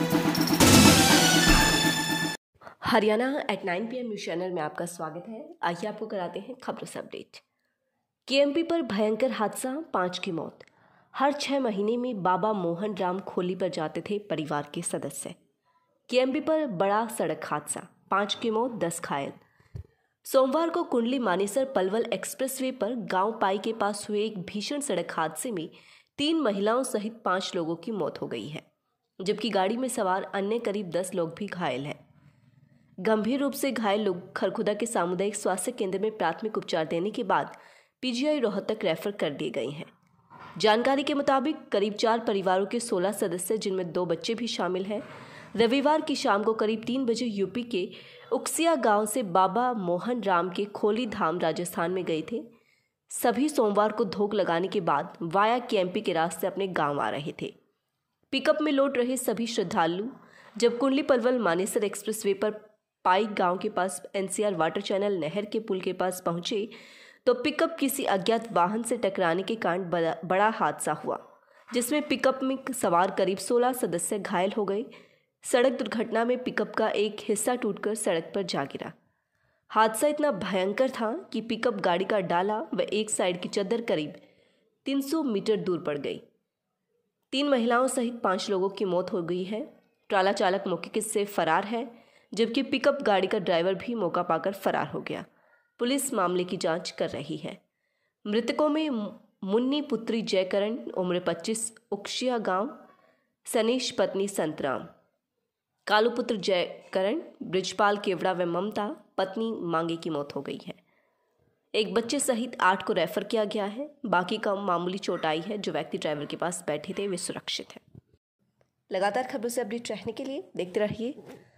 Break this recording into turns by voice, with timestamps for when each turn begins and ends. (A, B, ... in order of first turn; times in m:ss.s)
0:02.8-0:07.4 A
0:08.3-0:15.4 A
0:16.1-0:19.4 A
0:20.2-0:28.6 A
0:29.2-0:32.0 A
0:33.0-0:39.9 A
0:40.6-0:45.0 A
0:45.6-0:52.4 A
0:53.1-0:57.5 A
0:58.3-1:06.7 A
1:07.2-1:14.9 A
1:15.4-1:18.9 A
1:19.7-1:24.2 A
1:24.8-1:26.2 A
1:27.3-1:35.3 A
1:35.8-1:37.6 A
1:38.3-1:42.8 A
1:43.5-1:44.9 A
1:45.9-1:50.8 A
1:51.7-1:57.8 A
1:58.9-2:01.2 A